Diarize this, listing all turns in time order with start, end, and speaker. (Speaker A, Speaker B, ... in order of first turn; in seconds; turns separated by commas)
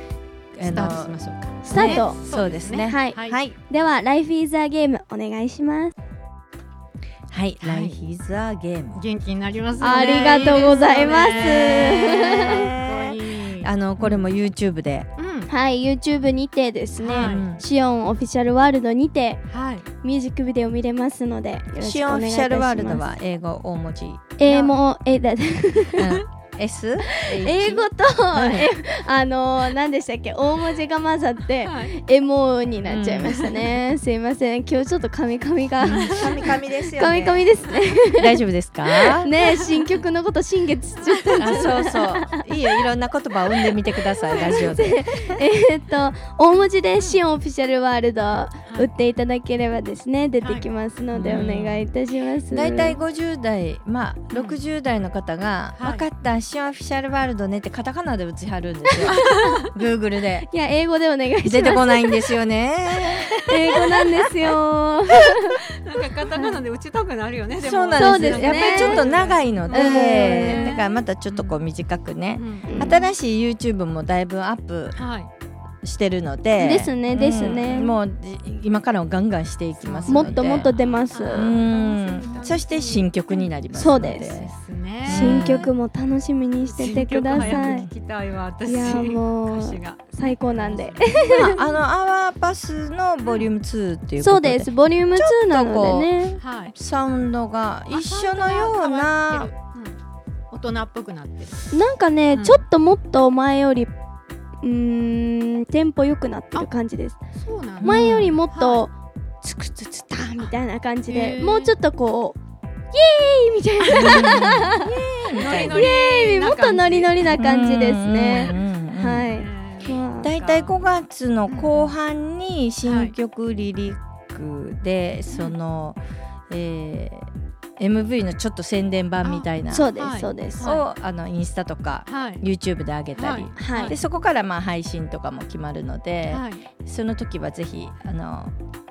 Speaker A: 0.6-3.6, Speaker B: 0.6-3.4, Speaker C: 1.6-2.2, Speaker C: 2.9-5.9, Speaker A: 7.3-9.0, Speaker B: 7.6-8.0, Speaker B: 8.9-14.3, Speaker C: 9.8-12.6, Speaker A: 11.3-15.1, Speaker B: 15.2-15.5, Speaker C: 15.5-19.4, Speaker B: 17.0-17.4, Speaker A: 17.1-17.6, Speaker B: 19.5-19.9, Speaker C: 20.0-23.1, Speaker A: 21.8-24.3, Speaker C: 24.4-26.1, Speaker B: 24.5-24.8, Speaker A: 26.0-28.7, Speaker C: 27.2-38.4, Speaker B: 31.6-32.0, Speaker A: 32.9-33.5, Speaker A: 35.8-37.5, Speaker B: 35.9-36.5, Speaker A: 38.1-39.3, Speaker C: 39.0-42.9, Speaker B: 39.6-39.9, Speaker B: 41.0-41.8, Speaker A: 41.4-45.2, Speaker C: 43.5-53.0, Speaker B: 50.4-50.6, Speaker A: 51.1-51.9, Speaker A: 52.5-60.5, Speaker B: 54.3-54.6, Speaker B: 55.8-56.1, Speaker C: 59.0-59.4, Speaker B: 59.1-59.7, Speaker C: 60.5-62.3, Speaker A: 61.4-63.5, Speaker C: 63.5-65.6, Speaker B: 65.3-71.6, Speaker A: 67.6-75.0, Speaker C: 68.0-69.0, Speaker C: 69.7-70.8, Speaker B: 72.3-72.9, Speaker C: 72.7-73.1, Speaker B: 75.0-75.3, Speaker A: 75.8-80.7, Speaker C: 76.6-78.0, Speaker B: 79.8-85.7, Speaker C: 80.1-81.6, Speaker A: 81.3-84.5, Speaker C: 83.7-84.3, Speaker A: 85.0-85.7, Speaker C: 85.0-87.9, Speaker B: 86.6-91.1, Speaker A: 87.3-87.9, Speaker C: 88.7-91.6, Speaker A: 91.1-96.1, Speaker B: 93.2-93.5, Speaker C: 94.2-96.4, Speaker B: 96.4-96.7, Speaker A: 96.7-99.5, Speaker B: 97.9-100.0, Speaker B: 100.5-101.8, Speaker C: 101.7-103.9, Speaker B: 102.3-102.6, Speaker C: 104.6-107.2, Speaker B: 107.3-108.8, Speaker A: 107.8-108.4, Speaker C: 107.8-112.4, Speaker B: 110.3-110.5, Speaker B: 111.1-111.8, Speaker C: 112.9-114.8, Speaker B: 113.8-114.6, Speaker A: 113.9-115.8, Speaker B: 115.3-117.3, Speaker C: 115.4-120.3, Speaker A: 117.4-119.3, Speaker B: 119.3-120.8, Speaker A: 120.2-126.0, Speaker B: 121.5-121.9, Speaker B: 122.8-123.2, Speaker A: 126.5-129.9, Speaker B: 129.2-130.8, Speaker C: 129.7-130.8, Speaker A: 130.6-138.5, Speaker B: 132.1-132.4, Speaker B: 133.2-134.0, Speaker C: 133.6-134.0, Speaker B: 136.3-136.7